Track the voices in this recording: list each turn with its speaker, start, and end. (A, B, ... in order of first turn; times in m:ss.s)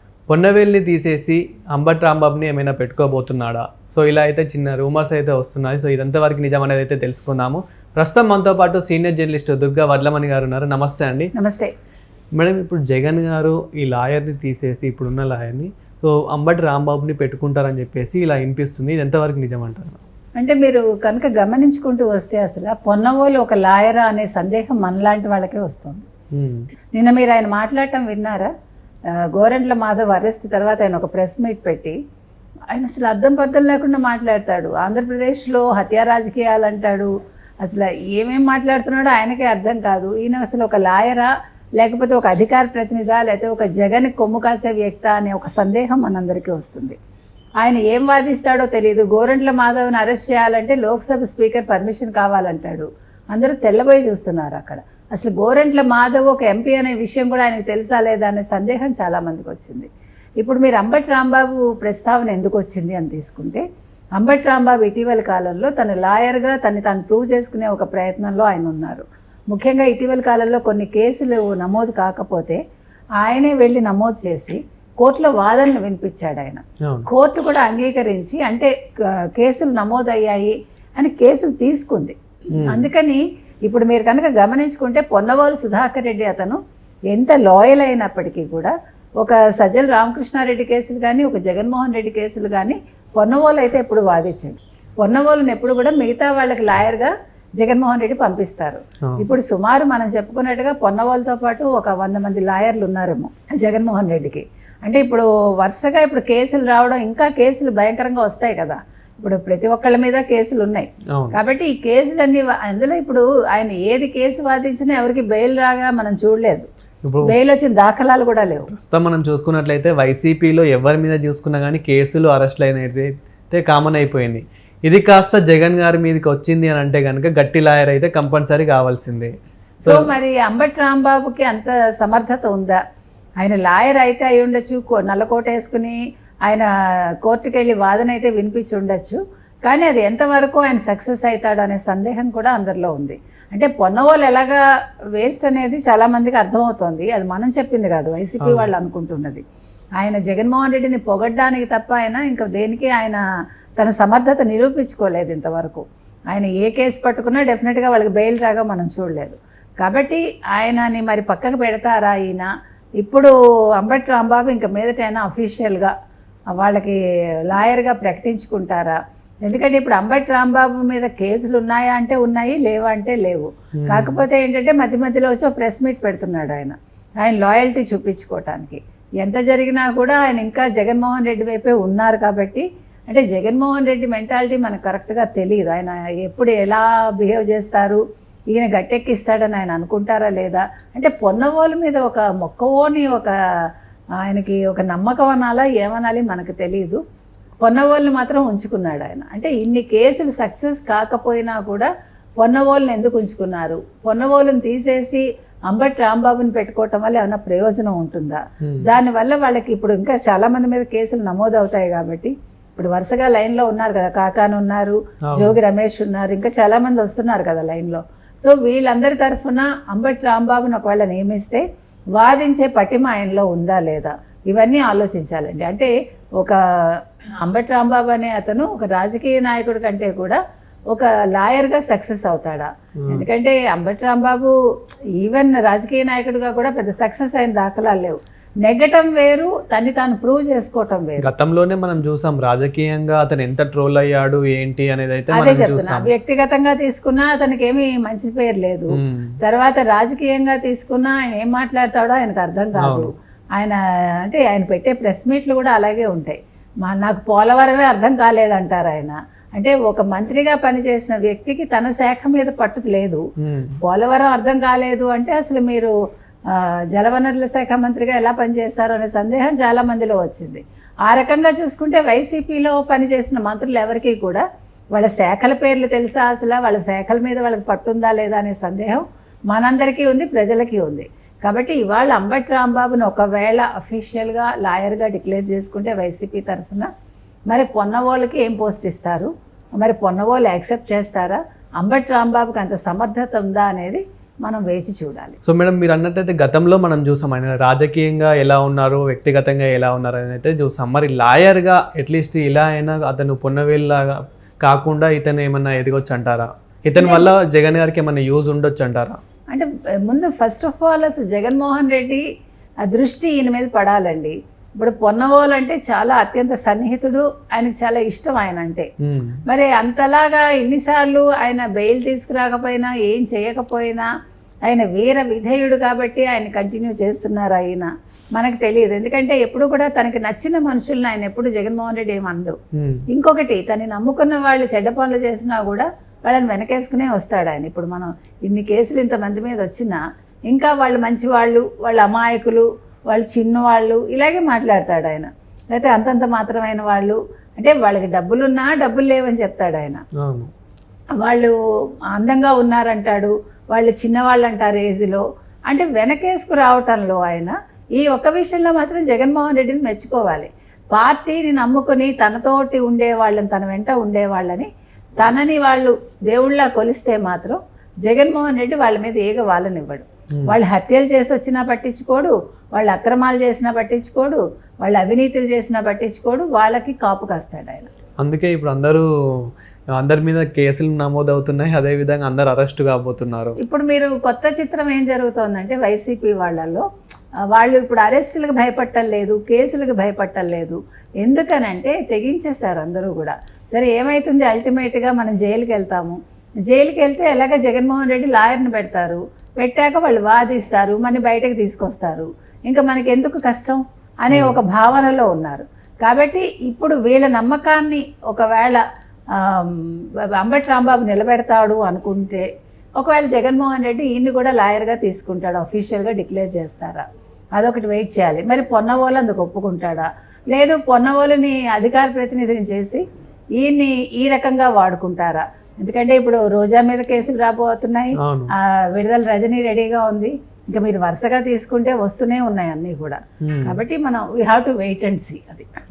0:00.3-0:11.3 A
0:11.3-0:11.7 B
0:12.4-0:20.0 A
0:20.4-0:26.1 B
0:26.3-0:26.6 A
0:27.0-0:28.5 B
0:29.4-0:32.0 B
0:32.7-0:37.1 B
0:37.6-0:47.0 B
0:47.6-0:59.9 B
1:00.4-1:03.6 B
1:04.2-1:12.6 B
1:13.2-1:18.7 B
1:19.4-1:26.6 B
1:22.5-1:22.8 A
1:27.1-1:56.7 B
1:57.0-1:57.3 A
1:57.2-1:58.7 B
1:58.7-2:10.1 A
2:09.8-2:12.8 B
2:13.4-2:16.7 B
2:17.2-2:24.6 B
2:25.2-2:29.4 B
2:28.4-2:28.7 A
2:30.0-2:33.2 B
2:33.8-2:42.5 B
2:43.0-2:45.9 B
2:46.5-3:08.0 B
2:53.8-2:54.2 A
3:08.5-3:13.3 B
3:14.2-3:17.0 B
3:17.6-3:21.9 B
3:22.4-3:41.6 B
3:28.6-3:28.9 A
3:35.3-3:35.6 A
3:42.2-3:50.4 B
3:50.9-3:54.5 B
3:55.2-4:01.3 B
4:01.2-4:06.1 A
4:05.3-4:23.2 B
4:08.9-4:09.3 A
4:12.8-4:13.1 A
4:23.4-4:23.8 A
4:23.8-4:25.9 B
4:26.5-4:34.4 B
4:34.9-4:46.9 B
4:47.5-4:55.4 B
4:55.4-5:09.2 A
5:07.0-5:07.3 B
5:09.5-5:12.2 B
5:12.8-5:18.9 B
5:19.0-5:19.4 A
5:19.4-5:24.1 B
5:24.7-5:32.6 B
5:32.7-5:33.0 A
5:33.1-5:50.0 B
5:50.2-5:50.5 A
5:51.2-5:51.5 B
5:52.1-6:04.7 B
6:05.2-6:17.9 B
6:18.2-6:23.6 A
6:23.6-6:26.8 B
6:27.5-6:48.8 B
6:44.3-6:44.6 A
6:49.4-6:52.5 B
6:53.0-6:57.0 B
6:57.6-7:03.0 B
7:03.6-7:15.7 B
7:08.2-7:08.5 A
7:13.4-7:13.8 A